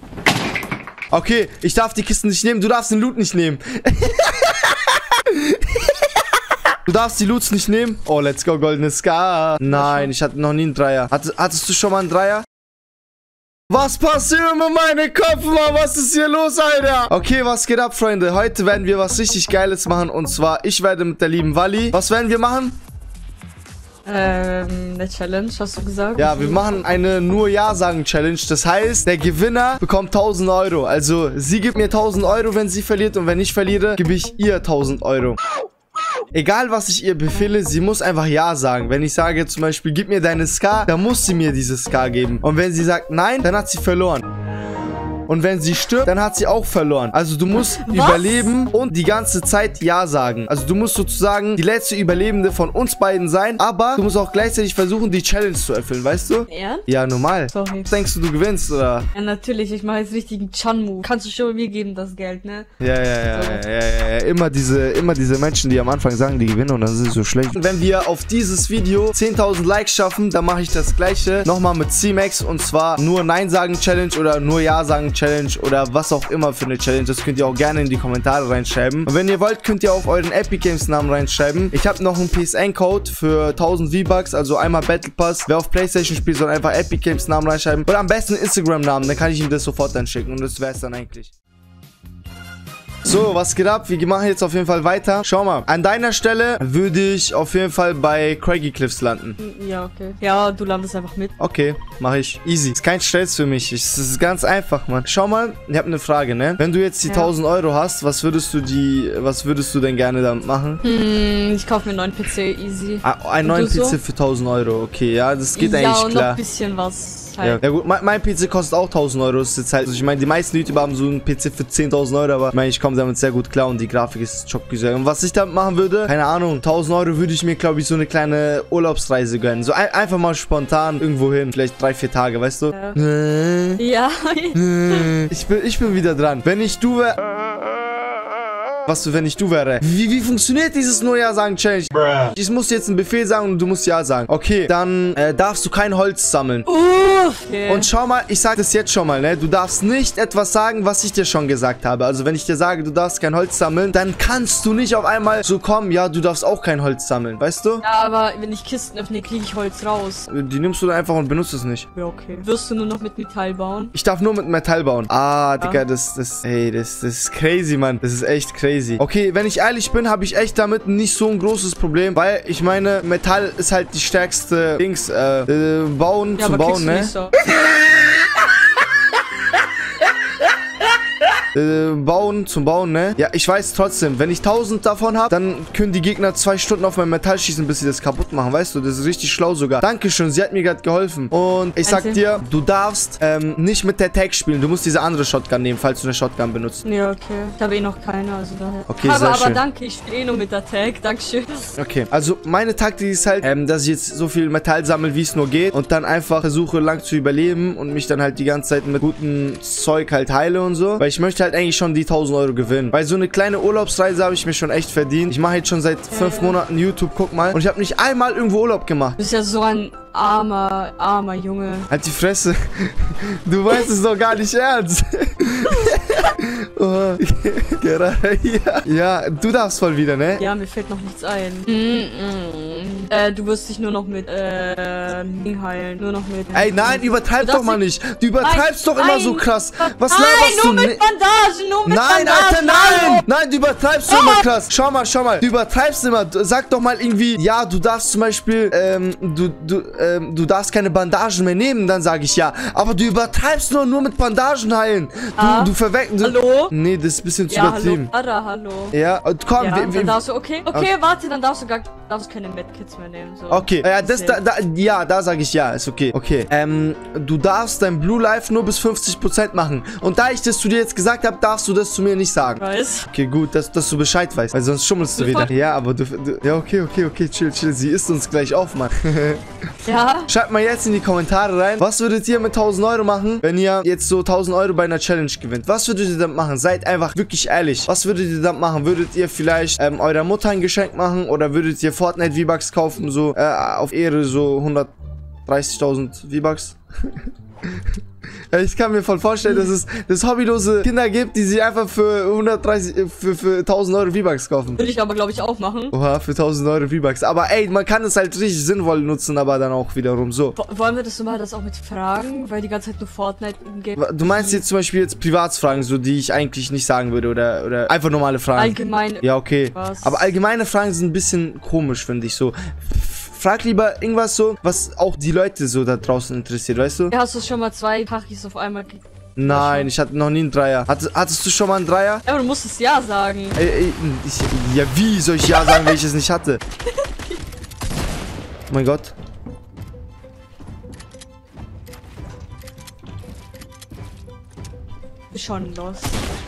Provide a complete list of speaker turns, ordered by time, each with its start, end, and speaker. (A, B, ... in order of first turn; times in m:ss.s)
0:01.1-0:05.9 A
0:06.9-0:12.4 A
0:09.7-0:10.1 B
0:13.7-0:22.7 A
0:24.1-0:26.7 B
0:26.2-0:35.4 A
0:36.3-0:44.2 A
0:45.3-0:59.1 A
0:47.5-0:48.5 B
0:56.5-0:56.9 B
0:57.5-0:57.9 B
0:59.1-1:02.7 B
1:02.8-1:31.3 A
1:03.2-1:03.6 B
1:33.0-1:39.4 A
1:39.4-1:41.3 B
1:41.4-1:50.8 A
1:50.8-1:54.0 B
1:53.0-1:56.4 A
1:55.6-1:57.6 B
1:57.4-2:13.8 A
2:12.7-2:13.0 B
2:13.8-2:15.1 B
2:14.6-2:17.2 A
2:18.9-2:26.7 A
2:26.7-2:27.9 B
2:27.7-2:37.8 A
2:37.8-2:40.3 B
2:40.3-2:41.9 A
2:42.0-2:43.9 B
2:43.9-2:57.1 A
2:56.4-2:57.3 B
3:01.5-3:16.8 A
3:11.8-3:12.2 B
3:16.8-3:21.8 B
3:18.9-3:19.6 A
3:21.8-3:39.2 A
3:36.1-3:36.6 B
3:39.2-3:41.9 B
3:41.9-3:50.4 A
3:50.4-3:57.8 B
3:56.5-4:01.0 A
3:58.4-4:03.3 B
4:01.9-4:18.1 A
4:04.1-4:04.5 B
4:15.4-4:16.7 B
4:17.5-4:19.0 B
4:18.9-4:20.2 A
4:19.6-4:24.4 B
4:23.5-4:39.4 A
4:32.6-4:33.1 B
4:35.1-4:35.5 B
4:39.8-4:40.3 B
4:40.3-4:54.9 A
4:55.5-4:57.2 A
4:58.5-5:04.9 A
4:59.4-4:59.7 B
5:04.8-5:06.0 B
5:05.9-5:10.6 A
5:10.6-5:14.6 B
5:14.0-5:27.1 A
5:18.6-5:20.3 B
5:27.1-5:29.9 B
5:29.4-5:32.2 A
5:32.2-5:33.6 B
5:33.6-5:36.6 A
5:35.5-5:36.0 B
5:38.7-5:39.1 A
5:45.3-5:46.2 B